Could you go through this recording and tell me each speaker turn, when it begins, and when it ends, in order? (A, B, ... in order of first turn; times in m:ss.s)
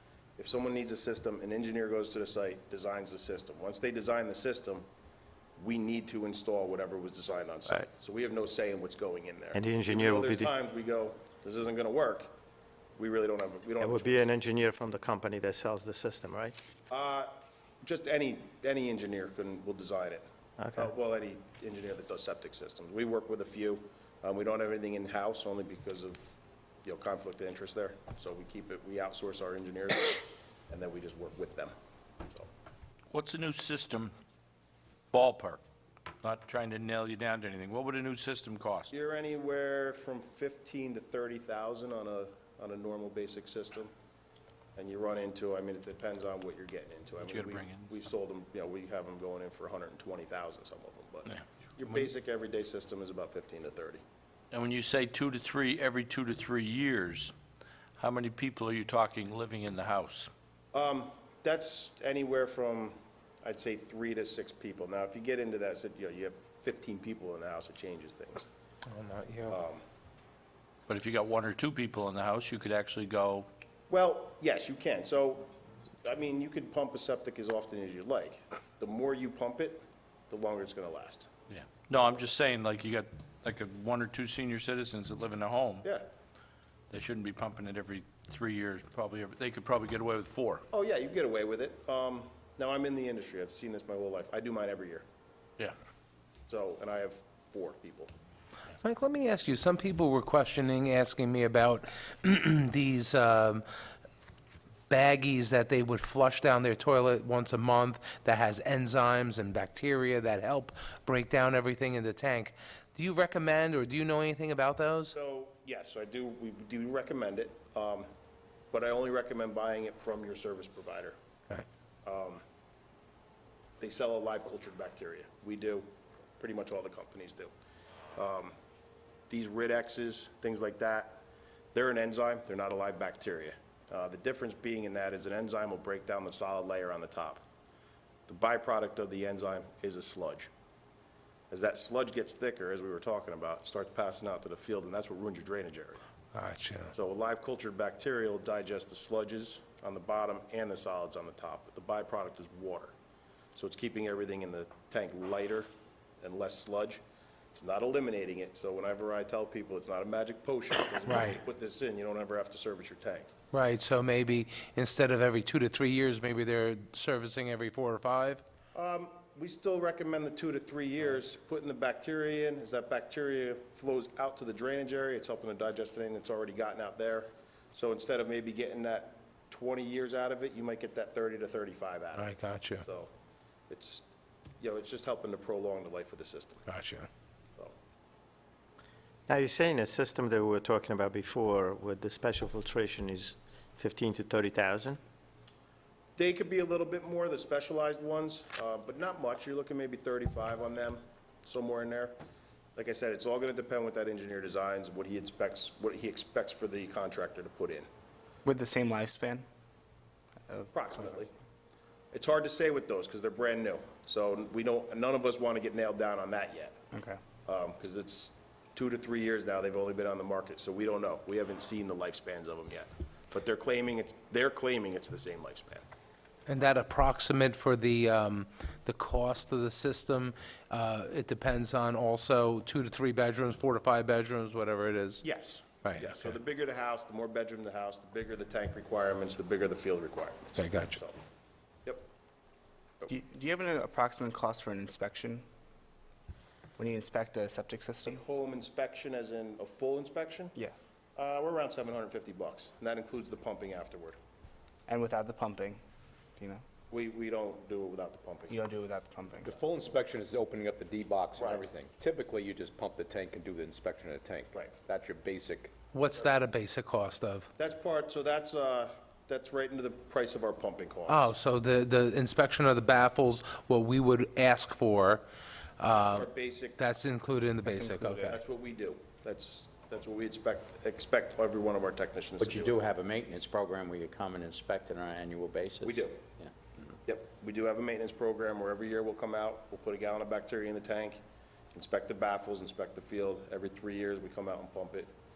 0:00.4-0:04.8 A
0:05.6-0:12.3 A
0:09.5-0:10.5 B
0:13.0-0:14.3 A
0:13.8-0:16.5 B
0:16.9-0:31.7 A
0:20.6-0:20.9 B
0:33.1-0:34.1 C
0:35.1-0:35.6 C
0:36.2-0:38.9 C
0:38.9-0:43.9 A
0:44.8-0:54.0 A
0:47.2-0:47.9 C
0:54.5-0:57.3 C
0:58.0-1:00.3 C
1:00.7-1:08.4 A
1:08.9-1:09.6 D
1:09.5-1:09.8 A
1:10.9-1:13.5 C
1:13.9-1:15.5 A
1:16.0-1:21.3 A
1:21.5-1:25.8 C
1:26.9-1:30.6 C
1:30.7-1:35.0 A
1:36.5-1:38.1 A
1:38.8-1:43.6 D
1:44.9-1:55.2 D
1:55.1-1:58.1 A
1:58.7-2:01.1 A
2:02.0-2:02.4 A
2:03.8-2:07.5 A
2:08.1-2:08.5 A
2:09.3-2:11.2 A
2:11.7-2:17.4 A
2:18.3-2:20.5 A
2:21.5-2:26.0 A
2:26.3-2:26.9 D
2:26.9-2:32.9 A
2:33.5-2:35.7 A
2:36.2-2:37.0 A
2:37.5-2:43.3 A
2:41.1-2:41.4 D
2:43.5-2:48.4 D
2:48.7-3:03.1 A
3:02.2-3:02.8 D
3:03.7-3:04.0 A
3:04.6-3:06.6 A
3:06.7-3:07.1 D
3:09.3-3:15.0 B
3:16.2-3:22.2 A
3:22.8-3:27.9 A
3:28.4-3:29.5 E
3:30.7-3:31.3 A
3:32.1-3:36.8 A
3:36.9-3:37.2 E
3:37.4-3:45.8 A
3:46.5-3:55.2 D
3:55.2-4:01.2 A
3:55.8-3:56.3 D
4:00.6-4:01.0 D
4:03.1-4:05.4 E
4:06.8-4:08.2 E
4:08.0-4:10.6 A
4:11.2-4:14.2 A
4:14.9-4:15.8 E
4:16.4-4:16.6 E
4:16.9-4:18.6 A
4:18.5-4:19.5 E
4:19.4-4:25.7 F
4:21.4-4:21.6 A
4:25.9-4:27.5 D
4:27.6-4:31.3 A
4:31.1-4:35.2 D
4:35.8-4:38.4 D
4:35.9-4:36.8 A
4:37.7-4:38.3 E
4:38.3-4:42.8 A
4:42.4-4:46.5 G
4:45.8-4:46.2 A
4:47.0-4:51.2 A
4:51.7-4:55.1 A